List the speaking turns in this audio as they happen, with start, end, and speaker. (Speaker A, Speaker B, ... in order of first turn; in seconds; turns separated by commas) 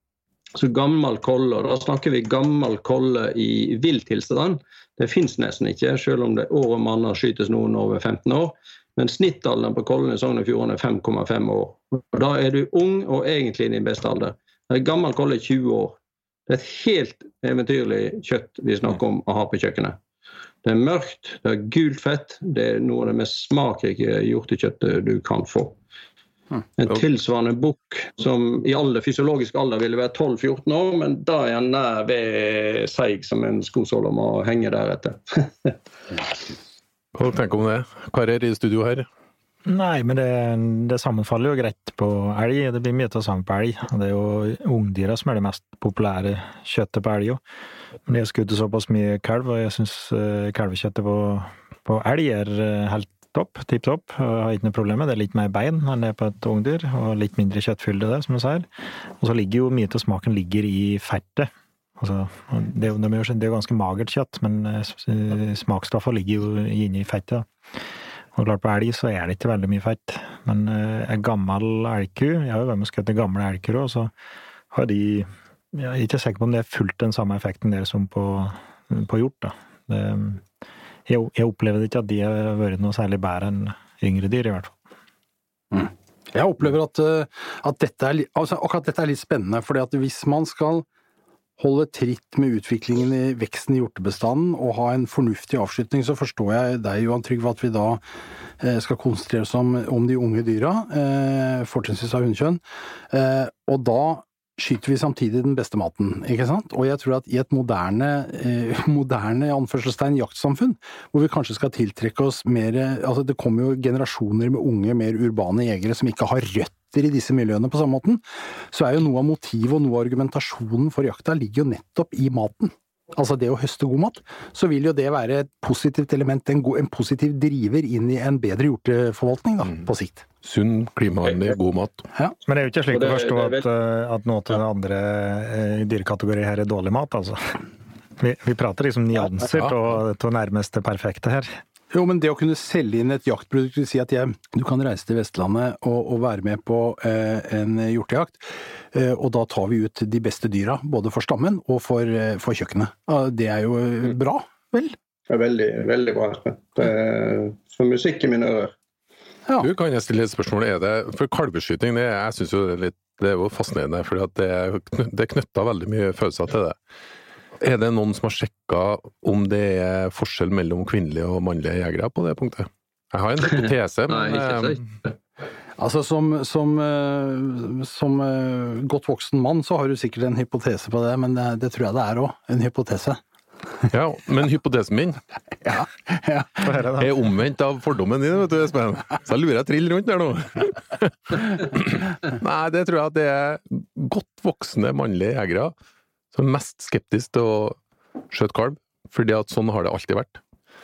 Speaker A: 0.6-20.0, Speaker A: 20.6-25.8, Speaker A: 26.8-35.8, Speaker B: 37.1-39.1, Speaker C: 39.6-47.4, Speaker C: 48.1-58.7, Speaker C: 59.2-67.5, Speaker C: 68.3-74.1, Speaker C: 74.7-80.4, Speaker C: 81.1-84.8, Speaker D: 85.7-90.8, Speaker D: 91.6-98.0, Speaker D: 98.6-118.2, Speaker D: 118.7-130.2, Speaker B: 130.4-132.1, Speaker A: 131.2-131.6, Speaker C: 132.5-137.6, Speaker A: 132.9-133.7, Speaker C: 138.2-141.5, Speaker D: 141.9-155.0, Speaker A: 155.3-158.7, Speaker B: 159.6-166.8, Speaker B: 167.6-174.8, Speaker A: 174.1-175.1, Speaker D: 175.8-183.2, Speaker B: 183.9-185.2, Speaker D: 185.7-186.7, Speaker C: 186.6-187.1, Speaker B: 187.0-195.7, Speaker B: 196.3-197.8, Speaker B: 198.3-200.4